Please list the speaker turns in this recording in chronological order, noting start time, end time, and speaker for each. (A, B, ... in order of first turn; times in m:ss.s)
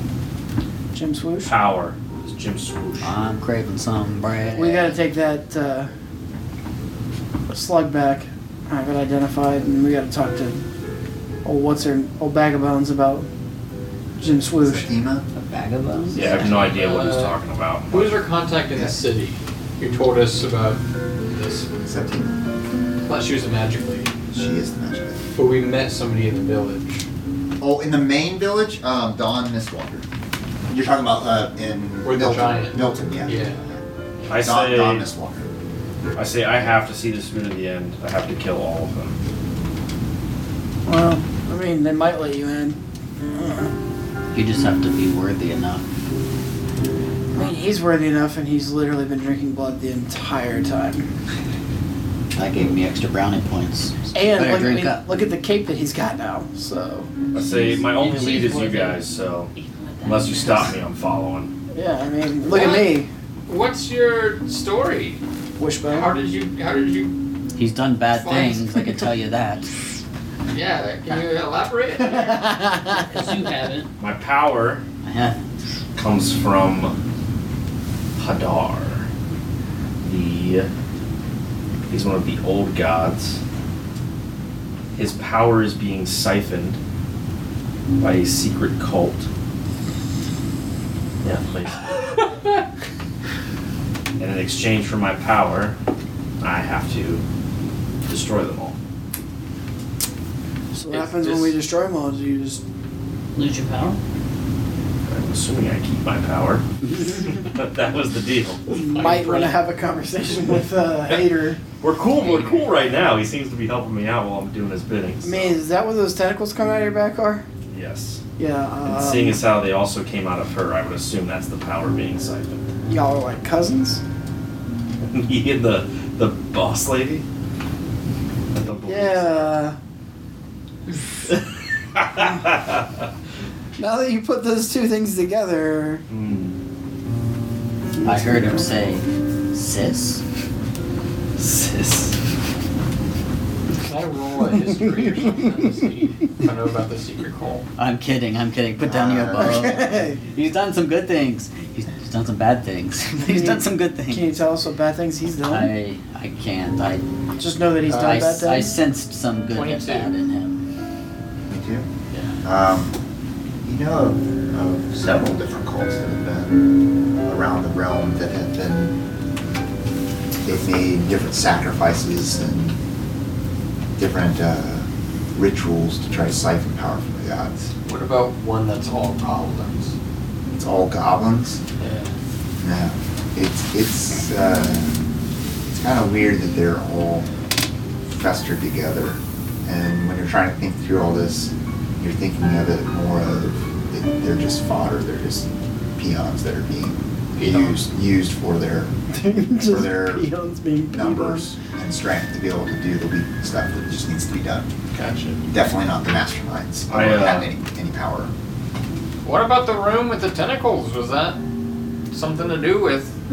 0:00.9-0:01.5 A
0:01.4-0:03.2 B
0:03.0-0:05.0 C
0:04.5-0:05.9 A
0:07.5-0:10.6 A
0:11.4-0:13.3 A
0:14.2-0:14.9 A
0:14.5-0:15.3 D
0:15.3-0:16.5 C
0:16.1-0:18.2 B
0:16.2-0:17.4 E
0:17.9-0:21.7 E
0:21.8-0:22.4 D
0:23.0-0:24.1 E
0:24.3-0:25.2 D
0:25.3-0:27.0 E
0:27.6-0:30.1 D
0:30.7-0:33.8 D
0:32.0-0:33.7 E
0:34.3-0:35.1 B
0:34.3-0:35.5 D
0:36.2-0:39.2 B
0:40.9-0:43.7 A
0:44.3-0:45.8 C
0:47.3-0:51.1 A
0:52.4-0:55.1 C
0:54.1-0:57.1 A
0:57.3-0:59.5 B
0:57.4-0:59.0 F
0:59.5-1:00.8 F
1:00.0-1:01.5 B
1:01.7-1:03.1 A
1:02.4-1:05.2 E
1:05.6-1:06.2 A
1:05.9-1:07.1 E
1:07.6-1:09.7 C
1:08.1-1:08.8 E
1:10.5-1:12.5 E
1:12.9-1:13.9 F
1:14.0-1:14.8 B
1:15.0-1:15.4 C
1:16.0-1:16.9 B
1:18.2-1:19.1 B
1:20.0-1:20.7 B
1:21.9-1:23.4 B
1:24.9-1:26.8 B
1:28.0-1:29.3 B
1:31.2-1:32.3 B
1:34.2-1:35.8 B
1:36.4-1:37.2 B
1:38.1-1:38.8 B
1:40.7-1:42.6 A
1:40.9-1:41.6 E
1:43.3-1:44.0 F
1:45.0-1:48.6 B
1:46.8-1:47.2 C
1:48.7-1:49.6 E
1:48.7-1:51.6 A
1:51.8-1:55.6 B
1:55.2-1:57.4 A
1:57.7-1:58.2 B
1:58.4-1:59.4 A
1:58.8-2:02.7 B
2:02.9-2:04.0 A
2:05.0-2:07.3 B
2:08.5-2:09.6 B
2:08.7-2:09.8 A
2:12.0-2:12.9 B
2:13.8-2:16.0 A
2:16.1-2:16.6 B
2:18.0-2:18.9 A
2:18.0-2:20.2 C
2:21.4-2:22.1 B
2:23.8-2:27.6 E
2:27.8-2:34.3 C
2:28.8-2:29.7 D
2:29.4-2:30.2 A
2:33.2-2:35.8 A
2:35.5-2:37.0 C
2:37.4-2:38.8 A
2:37.9-2:38.2 E
2:37.9-2:40.7 C
2:39.5-2:40.1 E
2:41.5-2:41.9 D
2:42.1-2:42.4 E
2:42.4-2:43.0 D
2:43.6-2:49.0 D
2:50.4-2:52.8 D
2:54.0-2:57.7 D
2:57.8-3:00.0 E
3:00.5-3:01.6 D
3:01.8-3:02.1 E
3:02.6-3:05.0 D
3:05.7-3:07.3 D
3:08.0-3:18.9 D
3:17.4-3:17.8 E
3:19.1-3:21.5 A
3:19.6-3:20.3 D
3:20.9-3:24.7 D
3:24.9-3:25.4 E
3:25.5-3:28.3 D
3:26.9-3:27.5 B
3:29.2-3:31.4 E
3:32.1-3:33.2 E